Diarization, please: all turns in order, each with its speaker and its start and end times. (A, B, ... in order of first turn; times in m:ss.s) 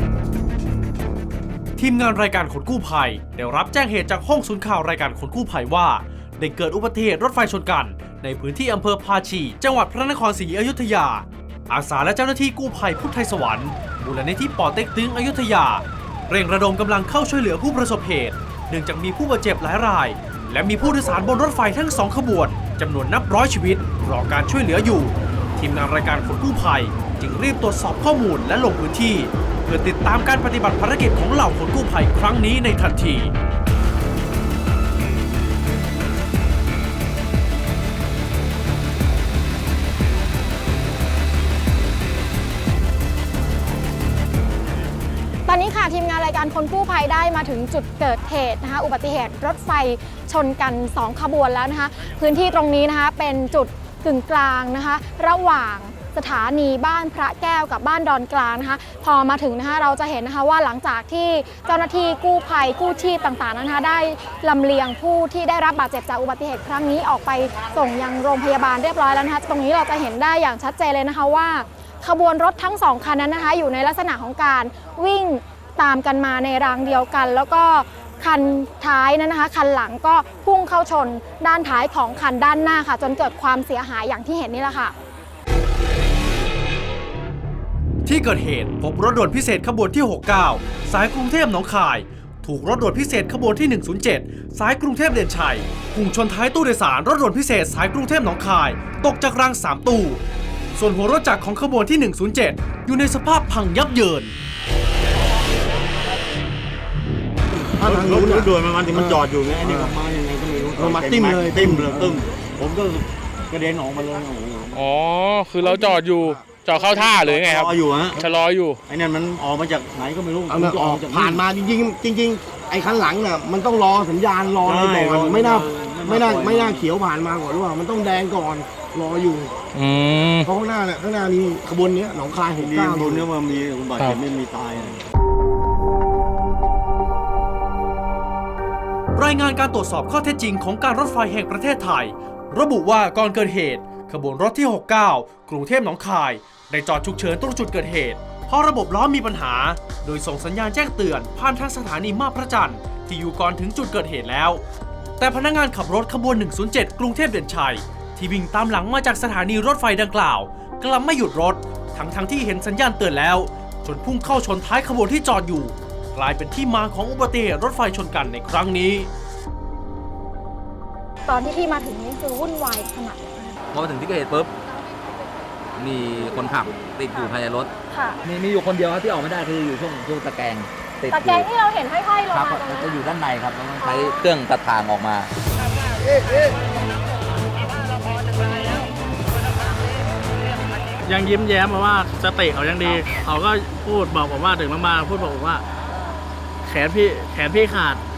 0:01.8-0:33.3 A
0:45.5-1:24.9 B
1:28.1-1:40.2 A
1:40.8-1:44.3 A
1:47.8-1:54.8 C
1:48.1-1:48.5 D
1:51.4-1:51.8 D
1:54.7-1:58.8 E
1:55.6-1:58.3 C
1:58.9-2:01.5 C
2:00.5-2:09.5 D
2:04.6-2:06.9 C
2:09.8-2:10.5 F
2:10.4-2:13.2 D
2:12.5-2:15.0 C
2:19.2-2:34.6 A
2:35.2-2:49.1 A
2:51.3-2:53.6 B
2:53.7-2:54.5 F
2:55.8-2:57.7 F
2:57.9-2:58.2 B
2:58.2-3:01.5 F
3:01.1-3:03.0 B
3:02.3-3:05.3 F
3:03.8-3:04.2 B
3:11.0-3:15.6 G
3:16.6-3:18.0 G